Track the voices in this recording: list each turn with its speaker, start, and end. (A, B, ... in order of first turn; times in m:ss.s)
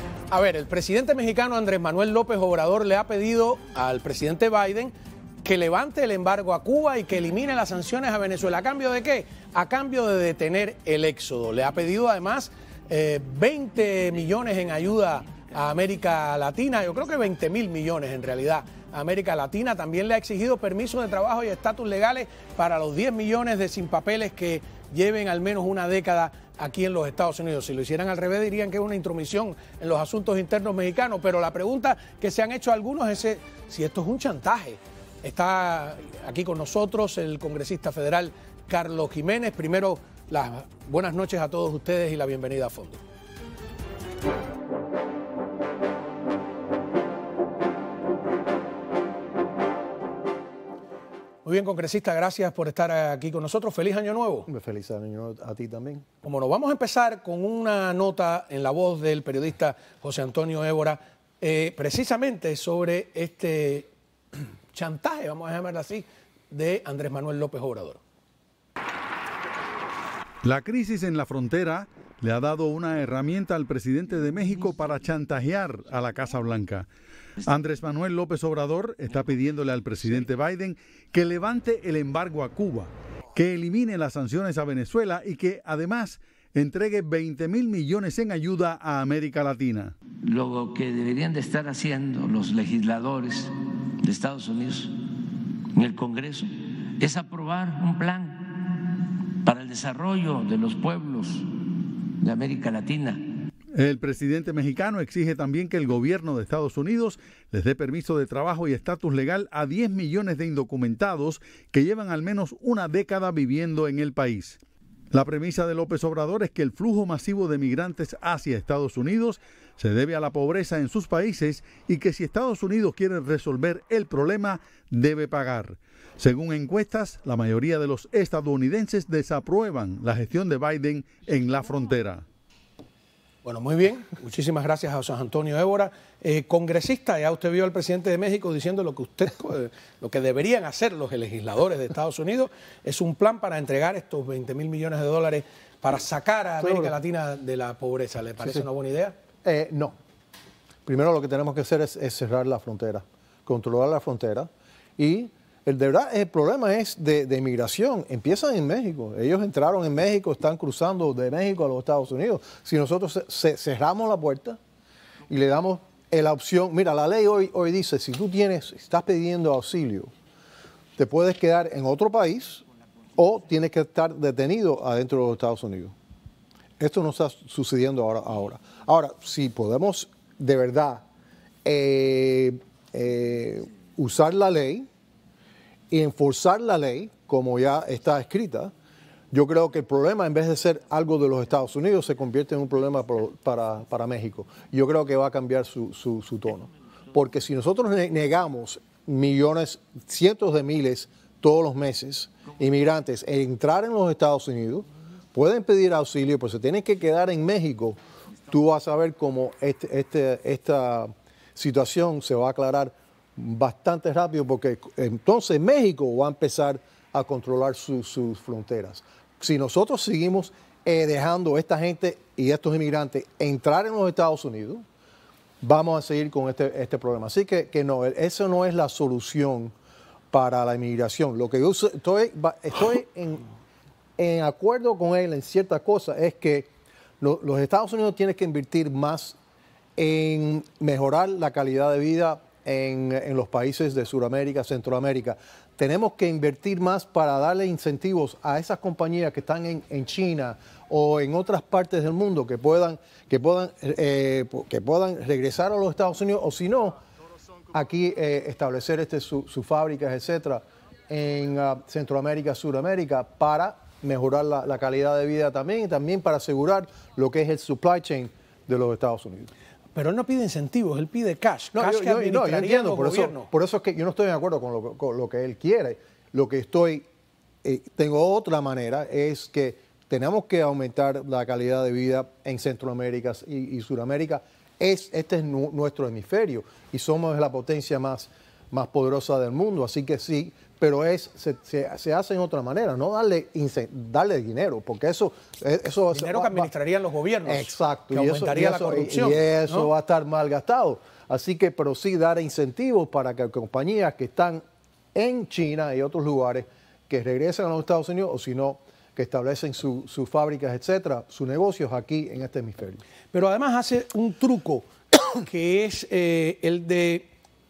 0:00.3-0:43.0 A
0:51.4-0:54.5 A
0:54.5-0:56.1 B
0:56.2-1:08.0 A
1:10.4-1:16.9 C
1:17.4-1:30.0 C
1:30.2-1:33.5 D
1:34.0-1:34.9 D
1:35.8-1:41.5 D
1:42.2-1:43.2 D
1:43.8-1:54.6 C
1:55.1-2:12.2 C
2:13.4-2:29.2 A
2:26.6-2:26.9 B
2:29.4-2:29.9 B
2:30.9-2:44.6 B
2:45.3-2:50.1 B
2:51.0-2:52.6 B
2:53.2-2:55.9 B
2:56.8-3:01.0 B
3:01.6-3:04.9 B
3:05.9-3:08.7 B
3:09.3-3:44.8 B
3:45.6-3:49.7 B
3:50.3-3:53.4 B
3:54.2-3:56.7 B
3:57.2-3:59.4 B
4:00.0-4:17.0 B
4:17.7-4:29.5 B
4:30.0-4:33.5 A
4:31.7-4:37.0 B
4:37.6-4:56.7 B
4:56.1-4:59.9 A
4:57.4-5:04.6 B
5:05.2-5:13.0 B
5:13.3-5:17.3 A